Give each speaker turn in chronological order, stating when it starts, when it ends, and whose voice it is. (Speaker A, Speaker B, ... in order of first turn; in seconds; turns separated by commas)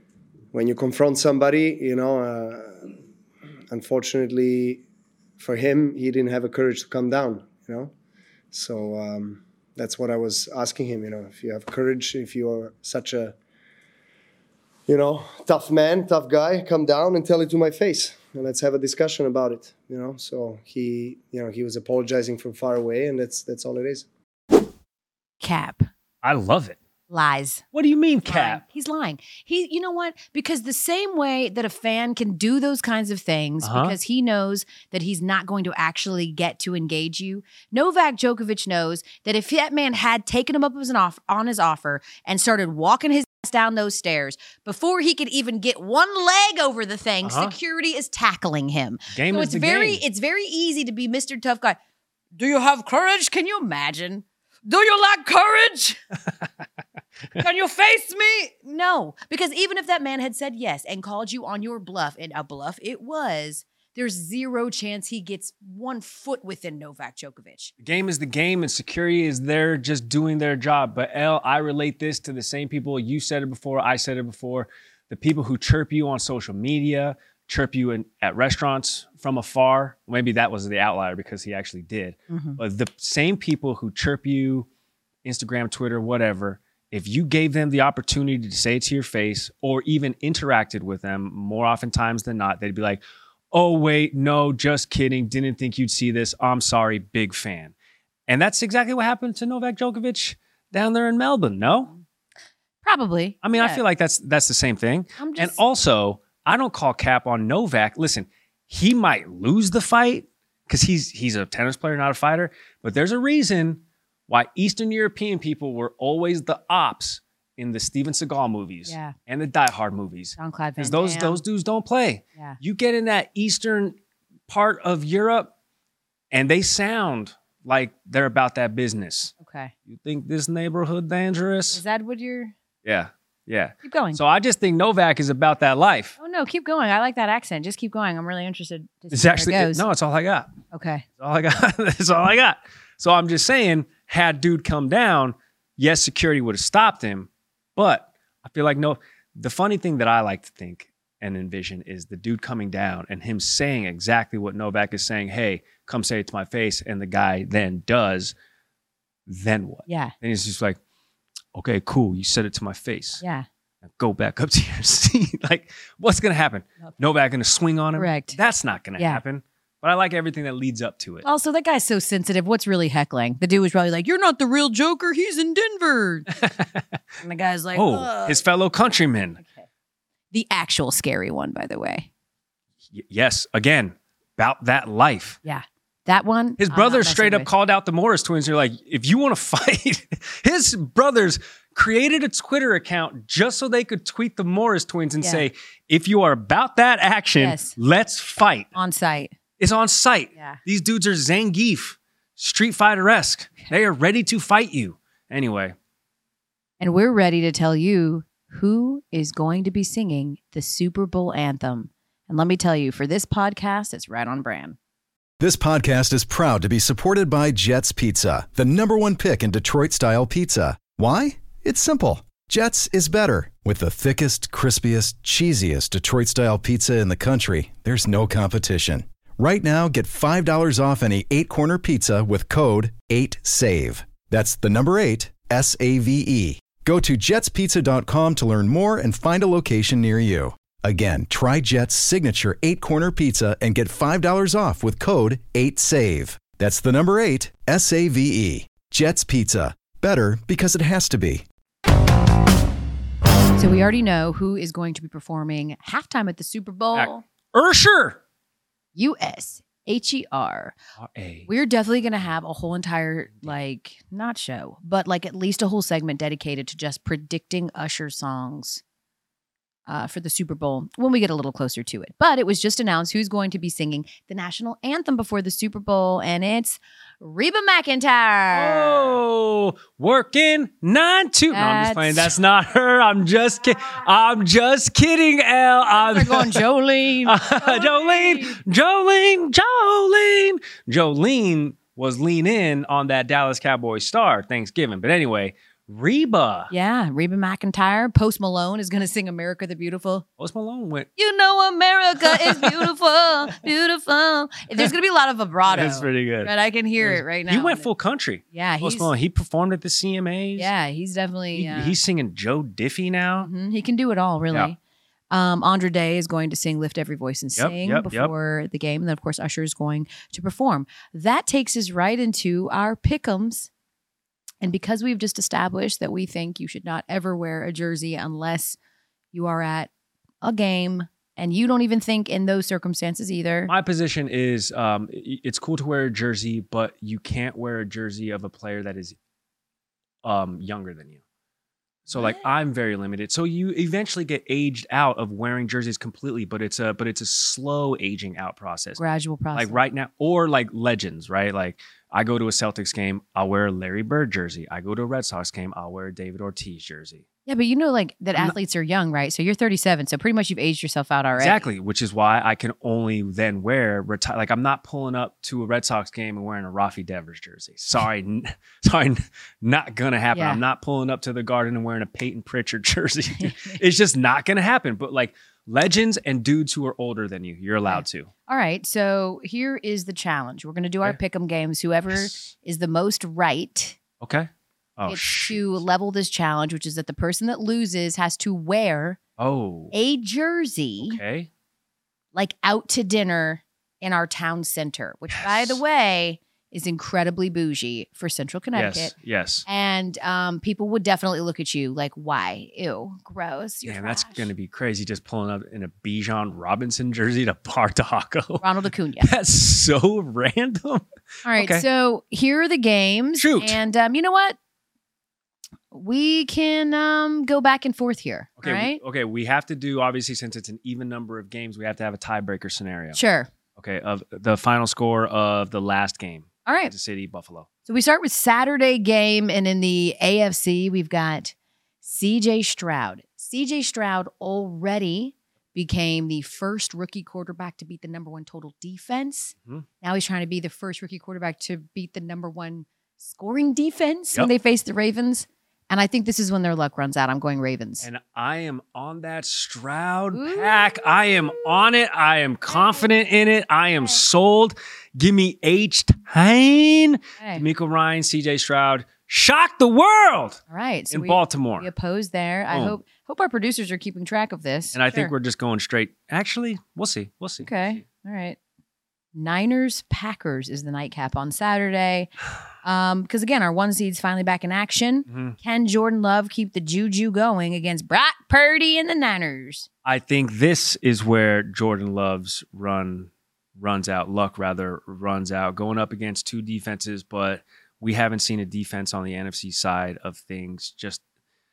Speaker A: 0.5-3.0, Speaker A: 3.7-4.8, Speaker A: 5.4-7.9, Speaker A: 8.5-13.4, Speaker A: 14.9-24.1, Speaker B: 25.4-25.9, Speaker C: 26.2-26.8, Speaker B: 27.1-27.6, Speaker C: 27.7-28.6, Speaker B: 28.3-51.8, Speaker C: 33.6-34.0, Speaker C: 47.2-47.5, Speaker C: 49.1-50.0, Speaker B: 52.4-56.0, Speaker B: 57.4-67.7, Speaker C: 67.8-84.7, Speaker B: 82.3-82.6, Speaker C: 85.2-93.0, Speaker C: 93.5-97.7, Speaker C: 98.3-101.9, Speaker B: 102.8-103.8, Speaker C: 103.4-124.0, Speaker B: 105.2-105.6, Speaker B: 118.9-119.2, Speaker B: 120.4-121.4, Speaker C: 124.5-125.5, Speaker C: 126.3-129.3, Speaker B: 129.4-129.7, Speaker C: 129.9-131.8, Speaker B: 131.7-132.5, Speaker C: 132.8-136.2, Speaker B: 133.8-134.2, Speaker B: 136.2-139.8, Speaker C: 139.1-140.5, Speaker B: 140.7-141.1, Speaker C: 141.2-158.3, Speaker C: 159.3-160.8, Speaker B: 159.9-160.1, Speaker C: 161.5-163.2, Speaker C: 164.0-171.2, Speaker B: 168.0-168.4, Speaker B: 171.2-176.4, Speaker C: 176.4-176.8, Speaker B: 177.2-178.4, Speaker C: 177.7-179.4, Speaker B: 179.4-179.7, Speaker B: 180.3-182.1, Speaker C: 182.9-185.4, Speaker B: 185.4-187.5, Speaker C: 186.6-198.7, Speaker B: 197.4-197.8, Speaker B: 198.7-199.3, Speaker C: 199.6-205.8, Speaker B: 200.3-200.6, Speaker B: 206.8-214.8, Speaker D: 215.4-251.4, Speaker B: 253.6-257.2, Speaker C: 256.9-258.2, Speaker B: 259.0-260.8, Speaker C: 261.0-261.5, Speaker B: 261.5-268.8, Speaker B: 269.9-279.2, Speaker C: 278.5-286.6, Speaker B: 281.5-282.3, Speaker B: 285.9-288.6, Speaker C: 287.2-296.7, Speaker B: 296.7-300.3, Speaker C: 300.4-301.1, Speaker B: 301.2-307.9, Speaker C: 302.2-302.7, Speaker C: 305.7-310.7, Speaker B: 308.5-309.1, Speaker B: 310.6-311.9, Speaker C: 311.5-313.5, Speaker B: 313.4-314.8, Speaker B: 315.3-323.7, Speaker C: 317.6-318.3, Speaker B: 324.6-328.8, Speaker B: 329.3-329.9, Speaker B: 330.4-333.7, Speaker C: 333.7-339.2, Speaker C: 340.2-341.2, Speaker C: 342.1-349.0, Speaker B: 342.1-342.4, Speaker B: 349.0-349.8, Speaker C: 349.5-357.2, Speaker B: 357.5-361.6, Speaker C: 361.4-378.3, Speaker B: 370.3-370.6, Speaker B: 373.4-373.8, Speaker B: 377.9-384.0, Speaker C: 382.1-382.5, Speaker C: 384.2-385.6, Speaker B: 385.1-389.2, Speaker C: 389.4-389.9, Speaker B: 389.9-391.2, Speaker C: 391.0-391.5, Speaker B: 392.4-399.1, Speaker C: 395.3-395.8, Speaker C: 398.7-399.7, Speaker B: 399.7-404.4, Speaker C: 403.9-408.7, Speaker B: 408.6-409.3, Speaker C: 409.2-411.9, Speaker B: 411.4-414.6, Speaker C: 413.4-413.8, Speaker B: 415.9-419.0, Speaker C: 418.6-423.2, Speaker B: 423.1-423.5, Speaker C: 423.8-427.7, Speaker B: 426.7-426.9, Speaker B: 427.9-448.1, Speaker C: 448.0-461.9, Speaker B: 450.3-450.7, Speaker B: 452.7-453.1, Speaker B: 457.4-457.6, Speaker B: 460.7-465.3, Speaker C: 462.7-463.0, Speaker C: 464.9-468.0, Speaker B: 467.6-468.6, Speaker B: 469.4-479.9, Speaker C: 475.3-475.6, Speaker C: 480.1-491.2